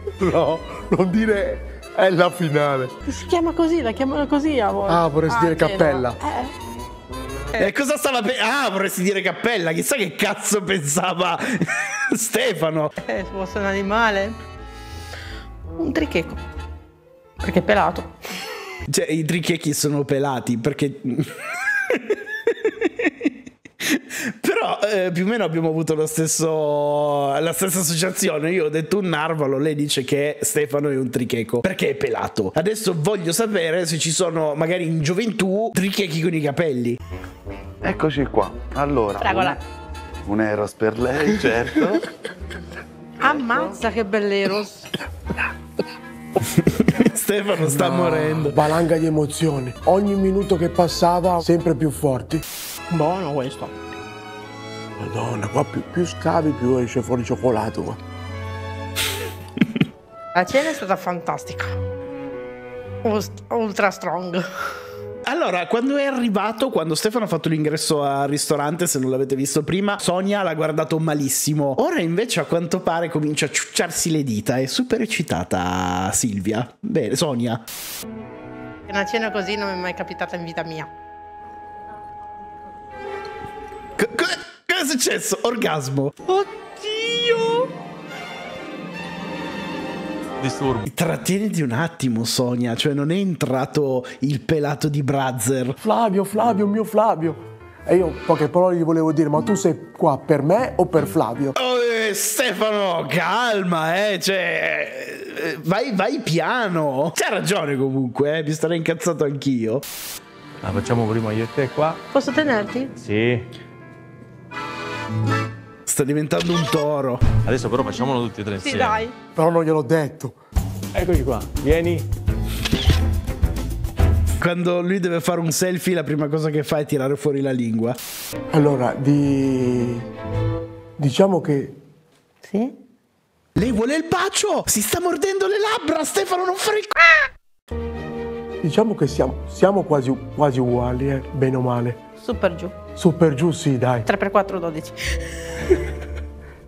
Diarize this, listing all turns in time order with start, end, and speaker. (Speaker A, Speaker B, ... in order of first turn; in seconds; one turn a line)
Speaker A: 0.2-2.9
Speaker B: 3.1-6.5
Speaker A: 4.9-6.2
Speaker C: 7.6-12.9
Speaker B: 13.0-14.4
Speaker B: 15.8-16.4
Speaker B: 17.4-18.1
Speaker C: 18.9-23.3
Speaker C: 23.8-37.0
Speaker D: 37.8-39.6
Speaker B: 39.2-39.6
Speaker D: 40.3-42.0
Speaker B: 43.2-44.9
Speaker C: 46.4-48.7
Speaker A: 47.6-52.4
Speaker B: 52.9-53.7
Speaker A: 55.0-58.0
Speaker B: 60.4-61.8
Speaker B: 63.0-64.4
Speaker C: 65.3-77.6
Speaker B: 78.9-80.9
Speaker C: 84.0-86.1
Speaker B: 86.3-87.7
Speaker E: 90.4-90.8
Speaker C: 90.8-95.8
Speaker A: 95.8-101.6
Speaker C: 101.5-109.8
Speaker E: 110.6-112.0
Speaker B: 112.1-112.9
Speaker E: 113.0-113.4
Speaker C: 115.9-117.2
Speaker E: 117.5-118.9
Speaker B: 118.6-119.1
Speaker A: 119.3-120.4
Speaker E: 121.1-122.0
Speaker C: 124.4-128.0
Speaker A: 128.5-130.1
Speaker A: 131.0-131.8
Speaker B: 132.4-132.7
Speaker C: 133.6-136.9
Speaker A: 138.6-142.0
Speaker B: 142.2-142.8
Speaker A: 143.0-144.1
Speaker B: 144.1-145.7